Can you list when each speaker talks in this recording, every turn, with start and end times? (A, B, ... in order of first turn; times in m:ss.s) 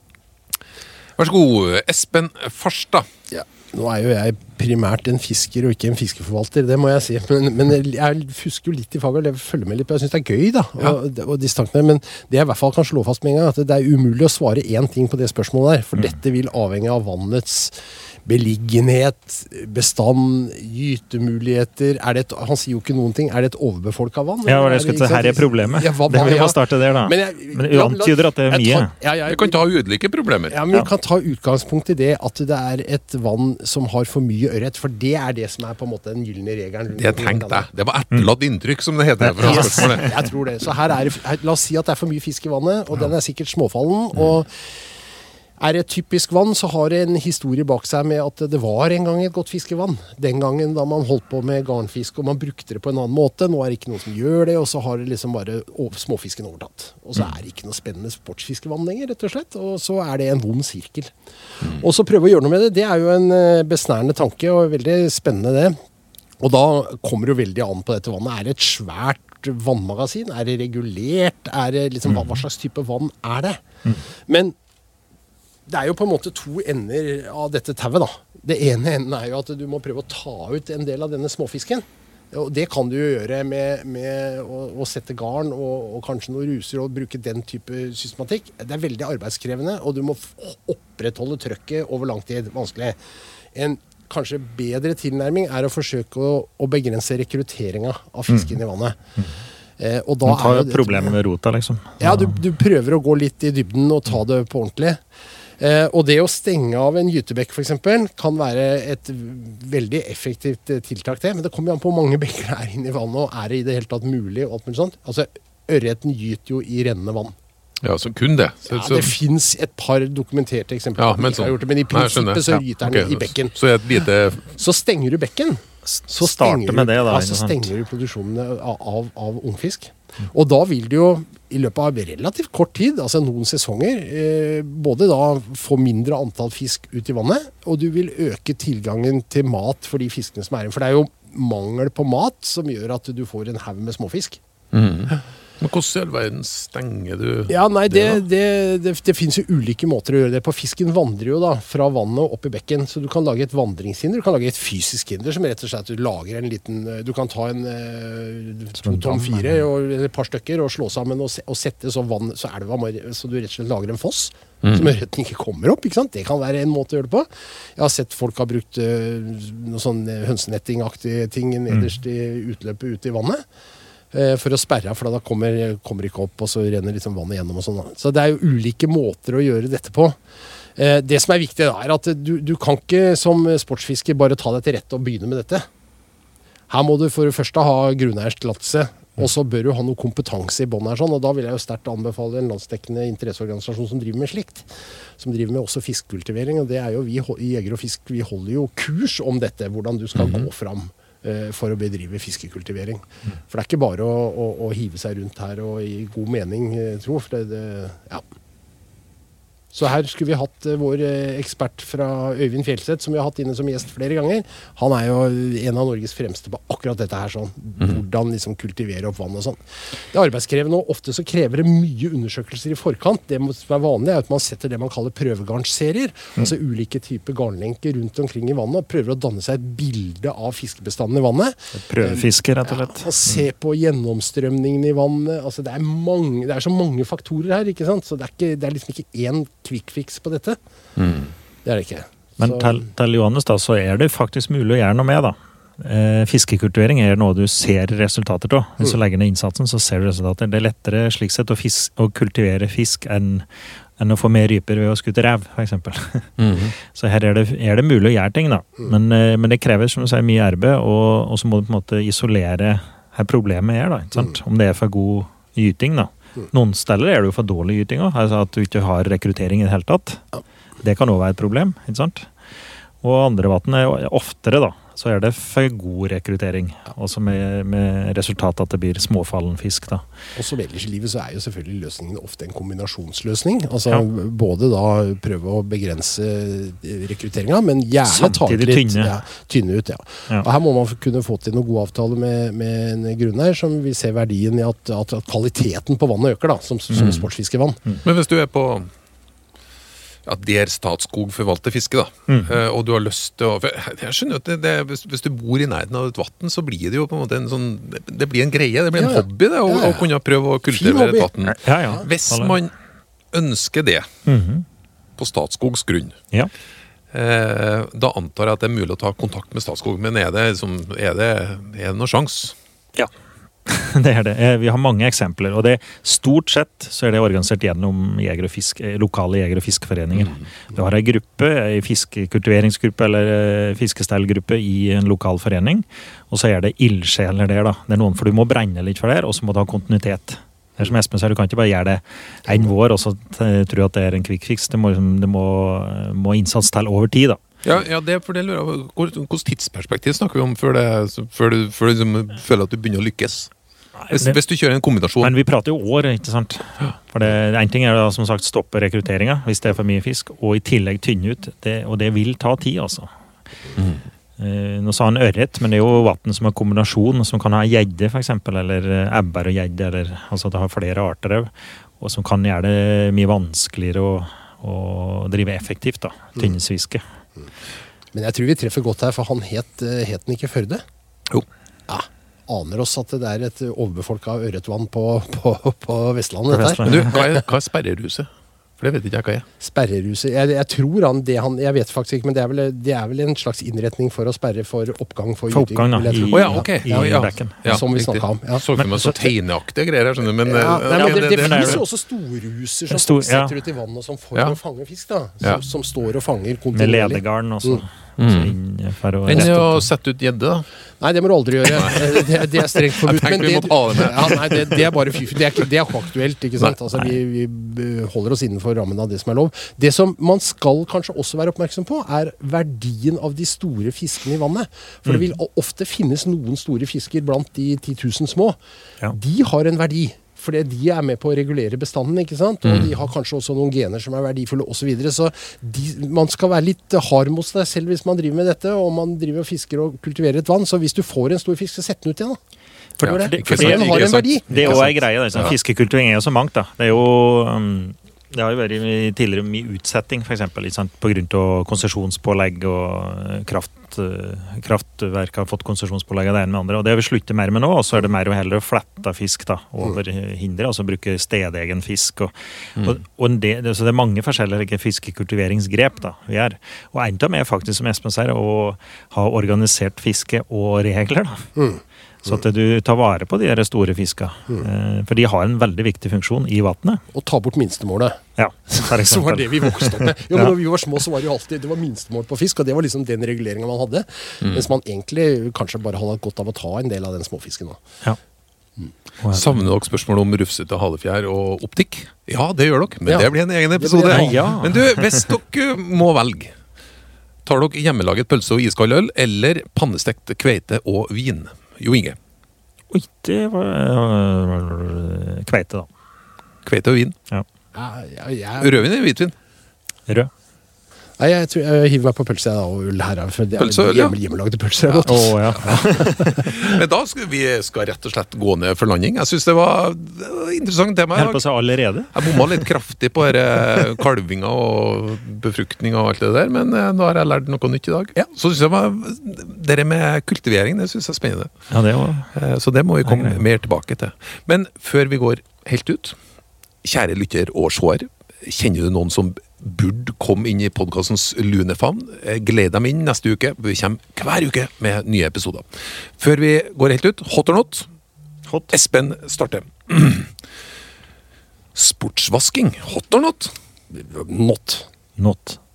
0:01.2-0:03.1 A
0:03.3-0:29.6 B
0:24.4-0:28.9 C
0:29.3-0:30.6 A
0:30.5-0:37.7 B
0:37.0-0:40.1 A
0:39.2-0:40.1 C
0:39.4-0:44.8 B
0:45.6-1:01.1 B
1:01.7-1:05.8 B
1:06.4-1:13.6 B
1:14.2-1:14.5 B
1:15.7-1:33.0 B
1:33.5-1:39.0 B
1:38.3-1:38.6 C
1:39.8-1:41.1 B
1:40.2-1:42.4 C
1:42.0-1:45.0 B
1:45.6-1:57.4 B
1:57.8-1:59.1 A
1:58.6-2:03.5 B
2:01.0-2:04.5 A
2:04.6-2:24.4 B
2:05.8-2:07.7 C
2:24.7-2:28.2 A
2:27.5-2:53.4 B
2:38.8-2:39.6 C
2:44.6-2:44.9 A
2:54.1-3:00.2 B
3:00.8-3:05.7 B
3:06.7-3:28.2 B
3:20.2-3:20.4 A
3:29.7-4:00.6 B
3:51.7-3:53.4 C
4:01.0-4:01.3 A
4:01.6-4:02.8 B
4:02.4-4:13.5 C
4:14.0-4:30.2 C
4:16.4-4:16.7 A
4:30.8-4:32.3 C
4:33.0-4:40.0 C
4:40.4-4:57.8 B
4:48.0-4:49.1 C
4:56.9-4:57.2 A
4:58.0-4:58.9 A
5:00.2-5:12.7 A
5:02.3-5:02.5 C
5:09.0-5:10.1 B
5:10.7-5:11.3 B
5:11.4-5:12.6 C
5:13.3-5:14.1 A
5:14.2-5:14.6 C
5:15.2-5:16.2 A
5:17.1-5:22.6 A
5:23.6-5:47.4 C
5:47.6-5:53.5 A
5:54.0-5:54.4 C
5:54.1-5:55.3 A
5:55.2-6:03.1 C
6:04.4-6:17.0 C
6:18.1-6:20.8 B
6:21.9-6:27.4 B
6:26.5-6:27.1 C
6:26.8-6:29.4 A
6:29.6-6:39.3 B
6:35.5-6:37.8 C
6:36.3-6:41.8 A
6:38.8-6:39.2 C
6:40.4-6:47.8 B
6:40.9-6:41.8 C
6:42.9-6:43.5 C
6:46.7-6:49.9 C
6:48.2-6:48.5 A
6:49.3-6:50.7 A
6:51.0-7:08.6 B
6:51.7-6:54.8 A
7:09.1-7:22.4 B
7:23.0-7:24.9 B
7:23.0-7:25.5 A
7:23.0-7:51.5 C
7:51.6-7:52.4 B
7:52.2-7:57.0 C
7:57.1-8:07.8 B
7:58.4-8:00.5 C
8:04.4-8:04.7 A
8:09.2-8:09.6 C
8:09.3-8:16.5 A
8:13.0-8:14.6 B
8:14.1-8:15.2 C
8:17.4-8:22.2 A
8:22.9-8:25.9 C
8:26.6-8:27.2 A
8:27.7-8:28.9 B
8:28.6-8:29.3 A
8:31.2-8:36.5 B
8:33.6-8:34.2 A
8:34.8-8:41.4 A
8:35.0-8:36.5 C
8:41.1-8:42.7 C
8:42.1-8:51.5 A
8:51.7-8:52.3 C
8:52.3-8:56.2 A
8:53.0-8:53.4 C
8:56.8-9:07.9 A
9:08.5-9:08.7 C
9:08.7-9:10.3 A
9:11.7-9:13.5 A
9:13.9-9:14.9 B
9:15.2-9:15.6 C